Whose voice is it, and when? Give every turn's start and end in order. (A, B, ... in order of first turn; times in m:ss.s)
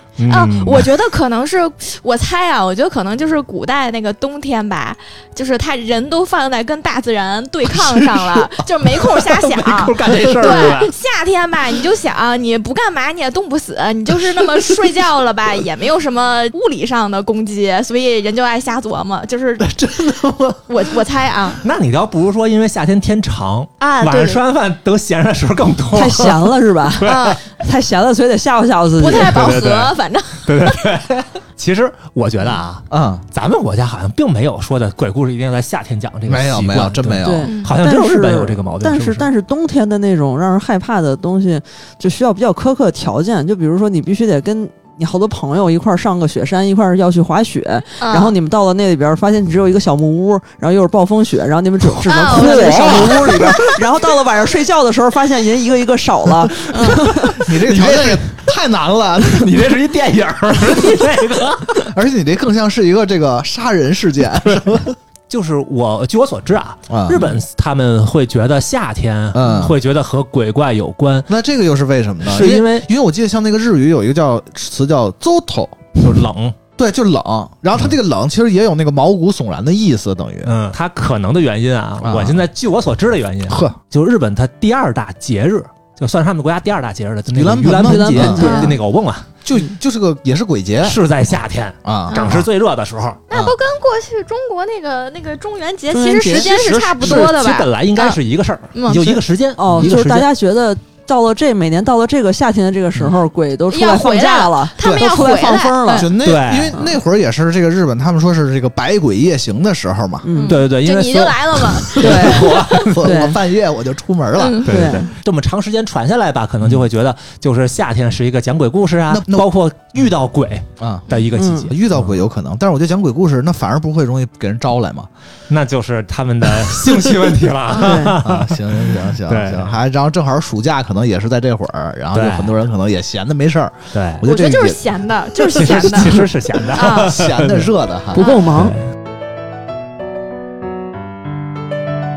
0:00.2-0:00.9 A
0:00.3-0:19.8 B
0:07.9-0:08.4 C
0:09.3-0:10.9 A
0:19.6-0:20.8 C
0:20.7-0:21.6 B
0:21.6-0:27.4 A
0:23.8-0:24.4 B
0:25.9-0:29.4 D
0:27.0-0:27.4 B
0:29.0-0:30.9 B
0:29.2-0:39.3 A
0:32.9-0:33.2 C
0:36.3-0:37.5 C
0:37.2-0:57.5 D
0:37.5-0:37.7 B
0:48.0-0:48.4 B
0:52.0-0:53.8 B
0:52.4-0:52.7 A
0:52.7-0:53.3 C
0:56.7-0:57.1 B
0:57.1-0:59.7 C
0:57.6-0:58.1 A
0:59.2-1:01.9 A
1:01.8-1:05.0 C
1:05.3-1:11.3 A
1:06.9-1:07.4 C
1:09.3-1:09.8 C
1:11.3-1:16.2 C
1:12.3-1:12.9 A
1:16.0-1:16.6 A
1:16.8-1:20.5 C
1:20.4-1:29.3 A
1:22.0-1:22.4 C
1:23.5-1:23.8 C
1:27.3-1:28.4 C
1:27.8-1:28.8 D
1:28.4-1:28.8 B
1:29.4-1:31.0 C
1:30.8-1:33.2 A
1:31.8-1:32.5 C
1:32.1-1:32.4 B
1:33.3-1:38.2 B
1:33.3-1:33.6 C
1:35.9-1:36.5 D
1:36.3-1:40.3 A
1:37.0-1:37.3 C
1:38.8-1:39.2 B
1:39.6-1:46.1 D
1:43.7-1:46.1 B
1:44.8-1:50.3 C
1:46.2-1:46.8 A
1:50.2-1:50.6 D
1:50.4-1:53.0 B
1:50.5-1:53.0 A
1:52.0-1:53.4 D
1:52.2-1:54.7 C
1:54.4-1:54.9 B
1:54.6-2:02.1 A
1:54.7-1:55.1 D
1:59.1-1:59.5 C
2:00.8-2:01.1 C
2:01.3-2:01.7 D
2:01.7-2:05.1 C
2:05.5-2:09.7 A
2:07.8-2:08.2 D
2:08.1-2:14.8 C
2:12.1-2:12.6 A
2:13.9-2:14.2 A
2:14.2-2:17.2 B
2:15.5-2:16.1 C
2:15.5-2:17.7 A
2:17.0-2:18.2 C
2:18.1-2:18.8 D
2:18.2-2:18.4 B
2:18.6-2:18.9 A